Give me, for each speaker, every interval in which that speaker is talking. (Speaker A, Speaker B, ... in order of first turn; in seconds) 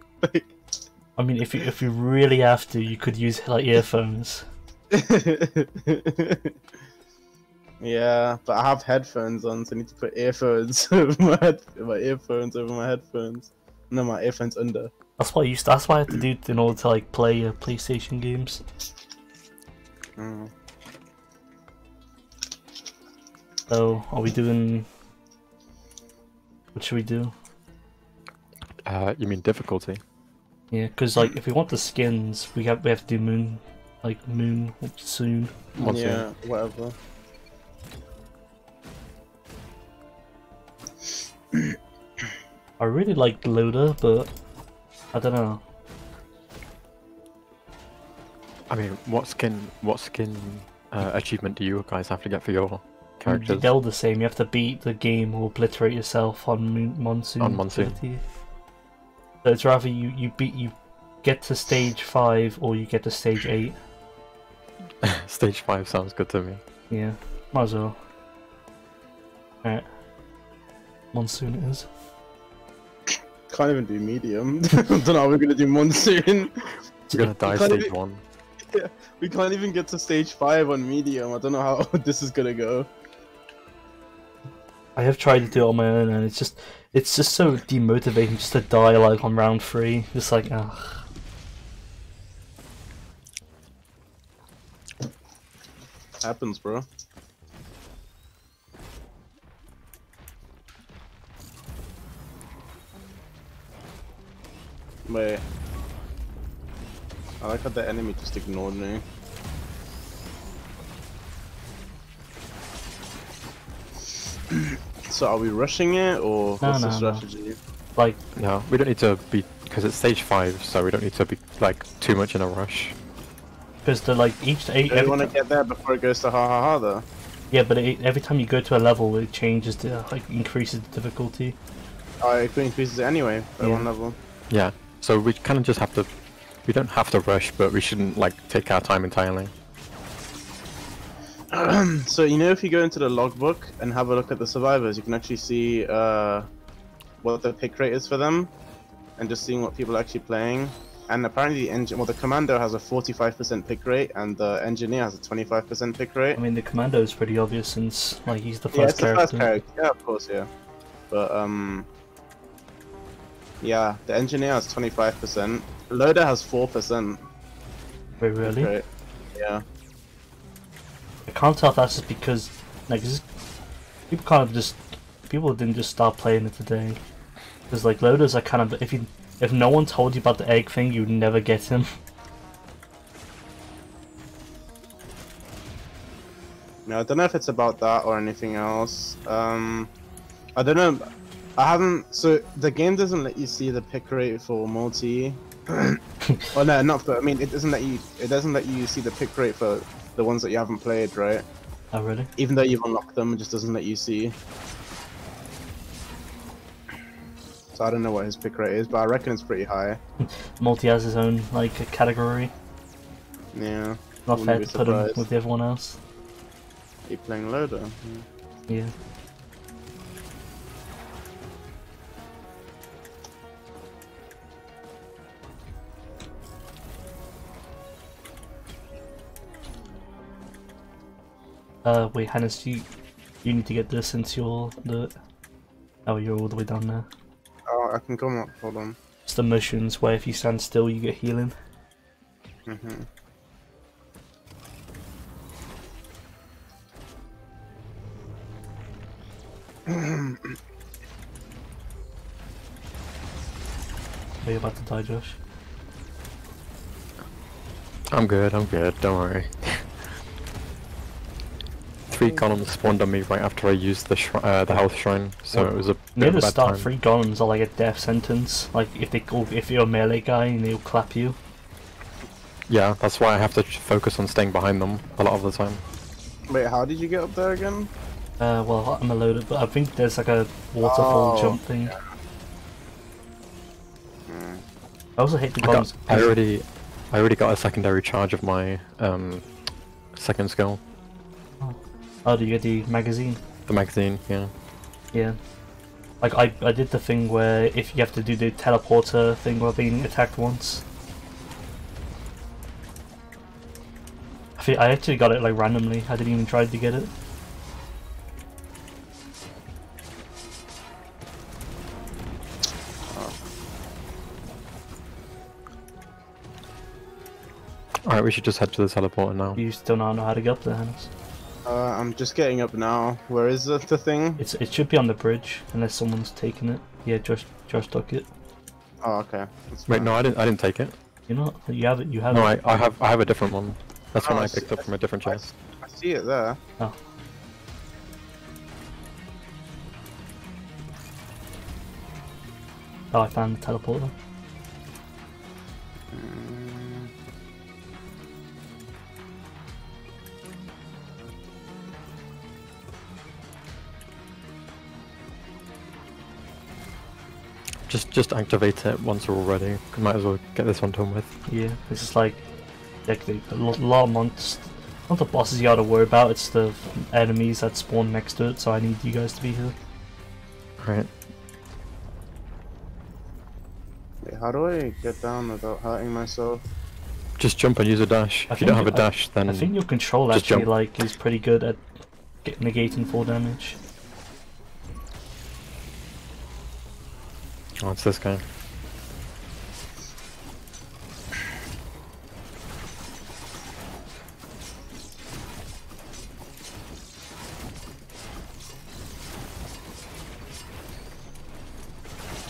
Speaker A: 0.2-0.5, 4.9-6.5, 7.8-14.9, 20.2-20.5, 35.8-37.0, 73.5-76.8, 77.3-77.9, 78.6-82.9, 96.2-96.8, 105.0-105.4, 107.4-109.0, 114.5-117.6, 124.9-127.0, 132.2-134.2, 141.5-146.5, 147.2-148.5, 149.2-156.4, 158.7-160.5, 161.1-161.9, 163.6-167.2, 168.4-169.6, 186.8-189.9, 190.6-196.0, 196.5-201.4, 202.4-204.3, 207.7-210.0, 213.5-215.2, 217.1-218.2, 237.7-239.0, 242.7-243.1, 249.9-250.5, 276.5-277.9, 280.8-282.0, 284.3-284.6, 321.6-324.4, 329.0-330.1, 334.1-336.6, 346.1-347.1, 374.2-376.6
Speaker B: 1.2-4.5, 15.2-18.6, 23.7-24.9, 26.7-27.3, 30.7-35.7, 42.8-44.3, 45.1-45.6, 53.3-58.2, 59.4-63.8, 66.9-68.0, 69.6-69.9, 71.1-71.9, 85.0-91.0, 116.6-117.2, 123.8-125.3, 127.5-131.6, 133.6-133.9, 156.4-159.5, 168.2-168.7, 171.3-173.2, 174.1-177.0, 177.7-181.9, 201.9-202.3, 210.2-212.5, 214.3-216.0, 231.8-232.8, 233.4-235.1, 236.1-237.1, 239.2-241.5, 254.4-255.4, 265.5-271.4, 278.4-281.9, 285.2-286.4, 291.6-293.4, 295.1-295.4, 296.2-300.8, 304.6-307.1, 319.6-321.1, 324.4-328.3, 331.3-332.9, 343.1-344.1, 361.5-362.4, 363.1-369.7, 378.5-381.8, 382.4-383.8
Speaker C: 28.9-30.0, 35.8-36.2, 48.7-53.7, 57.4-58.0, 65.0-66.6, 77.1-78.2, 118.3-122.9, 134.5-136.1, 136.7-139.5, 258.1-259.8, 262.1-266.9, 272.7-275.8, 285.6-289.5, 290.1-290.8, 293.7-294.5, 318.0-319.6, 329.9-330.9, 332.3-335.4, 357.9-361.3, 370.8-371.1, 377.4-379.7, 380.3-380.7, 387.8-388.4